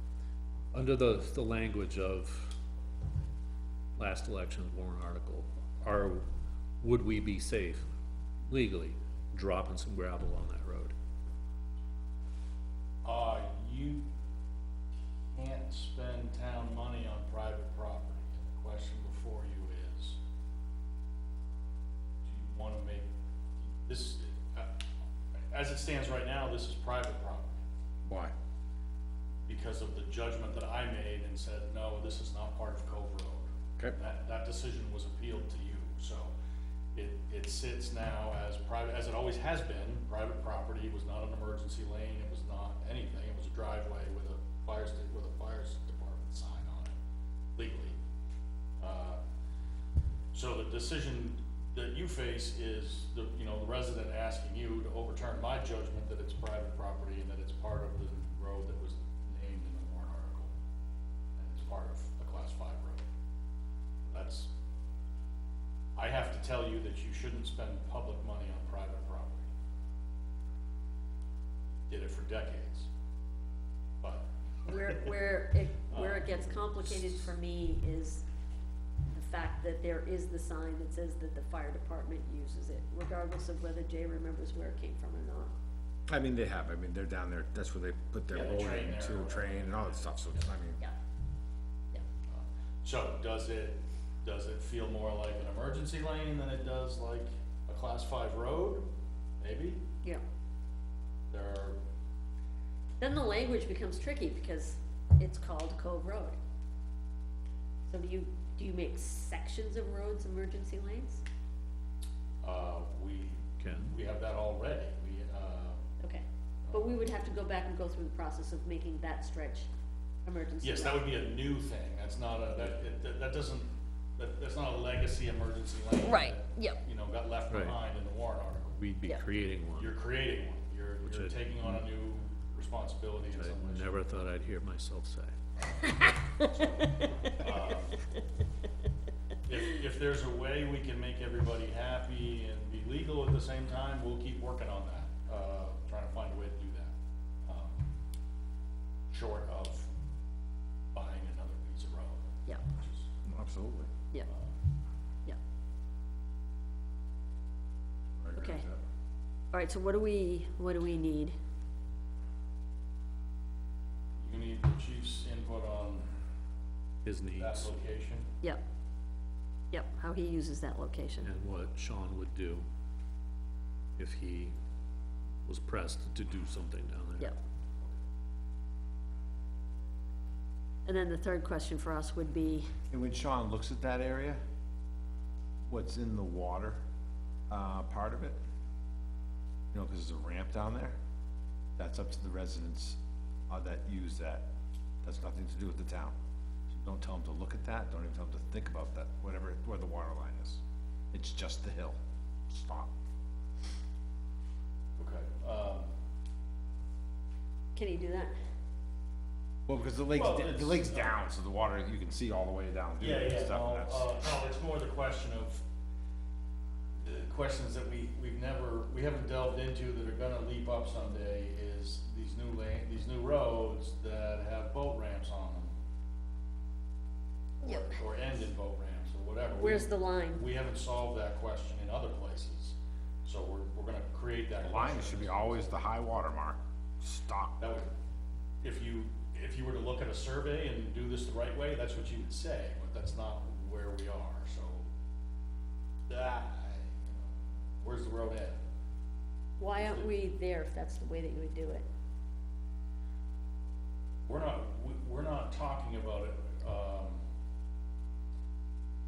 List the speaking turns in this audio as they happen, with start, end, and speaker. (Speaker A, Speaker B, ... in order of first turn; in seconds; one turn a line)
Speaker A: 0.7-2.5
Speaker A: 4.0-6.3
Speaker A: 6.8-7.9
Speaker A: 8.5-10.9
Speaker B: 13.0-14.1
Speaker B: 15.3-20.2
Speaker B: 22.2-23.1
Speaker B: 23.7-24.7
Speaker B: 25.5-27.6
Speaker C: 28.1-28.3
Speaker B: 29.5-36.3
Speaker B: 36.9-47.0
Speaker B: 47.6-48.0
Speaker B: 48.8-49.2
Speaker B: 50.3-60.5
Speaker B: 61.4-63.0
Speaker B: 64.1-64.5
Speaker B: 66.0-69.5
Speaker B: 71.9-72.9
Speaker B: 74.0-74.3
Speaker D: 74.7-78.2
Speaker B: 75.9-77.3
Speaker D: 79.1-85.5
Speaker C: 86.1-90.8
Speaker B: 88.3-90.5
Speaker B: 92.3-98.9
Speaker B: 99.4-99.8
Speaker B: 101.3-101.8
Speaker D: 103.0-106.4
Speaker D: 107.9-111.2
Speaker B: 112.4-115.9
Speaker A: 113.6-113.9
Speaker D: 116.0-119.7
Speaker B: 116.7-117.0
Speaker D: 120.2-121.3
Speaker B: 120.6-128.8
Speaker D: 126.0-126.8
Speaker A: 127.5-127.8
Speaker A: 128.8-130.0
Speaker B: 129.8-133.9
Speaker A: 131.0-131.8
Speaker A: 133.3-135.3
Speaker D: 136.1-136.5
Speaker B: 136.5-138.0
Speaker D: 137.0-137.3
Speaker B: 139.5-147.9
Speaker B: 149.1-149.9
Speaker B: 150.9-153.1
Speaker C: 153.2-153.9
Speaker B: 154.3-154.5
Speaker C: 158.2-158.8
Speaker D: 158.3-158.7
Speaker D: 159.5-161.4
Speaker B: 164.2-166.1
Speaker A: 167.1-167.7
Speaker B: 167.4-168.3
Speaker D: 169.7-171.3
Speaker A: 171.2-172.7
Speaker A: 174.0-174.6
Speaker A: 175.4-177.3
Speaker D: 180.8-182.7
Speaker C: 182.9-184.4
Speaker C: 185.7-186.8
Speaker C: 187.5-188.4
Speaker C: 189.7-191.0
Speaker C: 191.8-193.0
Speaker C: 193.5-194.4
Speaker C: 195.0-196.2
Speaker C: 196.7-200.6
Speaker C: 201.1-202.9
Speaker B: 205.0-205.9
Speaker D: 207.7-208.3
Speaker C: 209.7-214.1
Speaker B: 210.1-211.2
Speaker B: 213.0-215.6
Speaker B: 217.0-225.7
Speaker D: 227.6-228.0
Speaker B: 227.6-235.7
Speaker D: 229.6-230.5
Speaker C: 234.6-237.6
Speaker B: 237.6-237.9
Speaker B: 238.6-244.9
Speaker B: 246.1-248.6
Speaker D: 249.6-251.9
Speaker B: 249.7-250.1
Speaker B: 254.2-257.2